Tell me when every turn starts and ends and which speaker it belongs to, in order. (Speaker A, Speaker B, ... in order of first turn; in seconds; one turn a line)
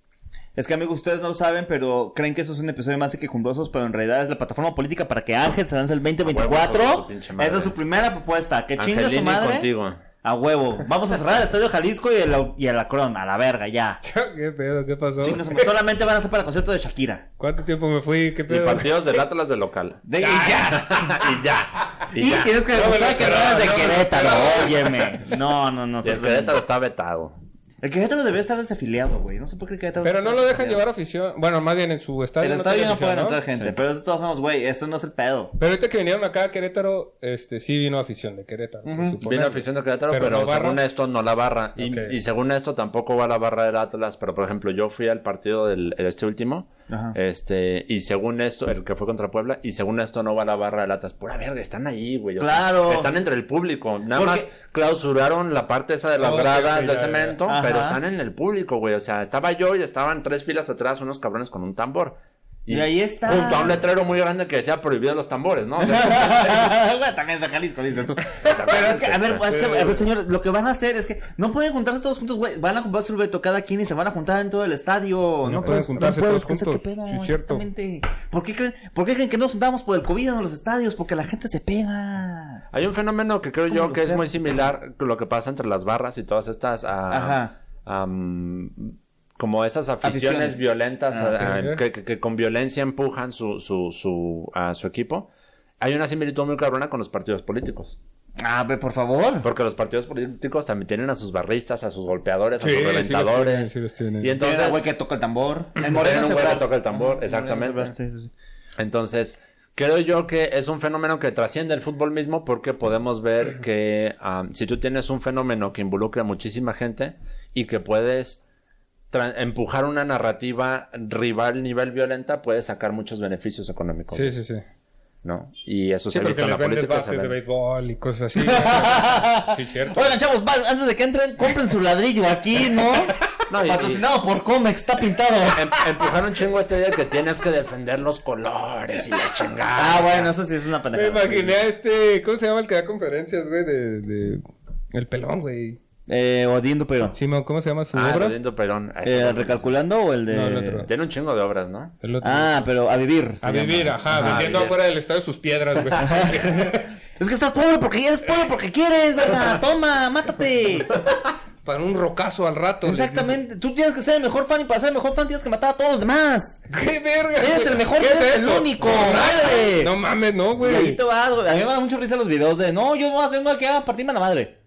Speaker A: 0.6-9.7
Speaker B: 6.2-7.8
Speaker B: 8.8-10.0
Speaker A: 10.2-14.0
Speaker C: 14.0-15.7
Speaker A: 15.2-17.3
Speaker C: 17.4-18.9
Speaker B: 18.5-20.0
Speaker A: 20.1-21.0
Speaker C: 20.2-20.8
Speaker B: 20.7-22.6
Speaker A: 22.1-26.5
Speaker C: 22.7-25.2
Speaker B: 26.0-27.4
Speaker A: 27.8-30.8
Speaker C: 30.0-33.7
Speaker A: 32.4-35.5
Speaker C: 35.6-40.8
Speaker A: 38.9-39.2
Speaker B: 39.2-66.8
Speaker C: 41.8-42.1
Speaker A: 46.9-47.2
Speaker A: 52.4-53.1
Speaker A: 54.1-54.5
Speaker C: 56.2-57.4
Speaker A: 57.5-58.0
Speaker A: 62.7-63.8
Speaker A: 65.8-82.6
Speaker B: 68.4-69.5
Speaker C: 69.5-70.0
Speaker C: 75.5-77.6
Speaker B: 82.7-95.3
Speaker A: 83.7-84.2
Speaker A: 87.1-87.5
Speaker A: 90.0-91.5
Speaker C: 91.4-91.8
Speaker B: 95.8-98.0
Speaker A: 98.4-99.5
Speaker B: 99.4-104.8
Speaker C: 102.6-104.3
Speaker A: 104.4-108.3
Speaker B: 105.9-107.9
Speaker B: 108.8-118.4
Speaker B: 119.1-124.3
Speaker C: 124.1-124.6
Speaker B: 125.2-127.3
Speaker C: 126.1-130.2
Speaker A: 128.4-135.8
Speaker B: 133.5-134.0
Speaker B: 135.5-140.3
Speaker A: 139.8-141.6
Speaker C: 140.9-145.8
Speaker A: 146.1-147.2
Speaker C: 147.2-148.4
Speaker B: 147.9-149.7
Speaker A: 149.0-150.9
Speaker C: 150.3-150.9
Speaker B: 150.8-151.9
Speaker C: 152.0-152.7
Speaker A: 152.2-154.4
Speaker C: 153.4-156.9
Speaker B: 154.1-154.8
Speaker A: 156.0-156.6
Speaker A: 157.2-161.0
Speaker C: 161.6-163.4
Speaker A: 162.8-166.7
Speaker C: 166.7-171.0
Speaker A: 167.4-169.9
Speaker A: 170.6-174.6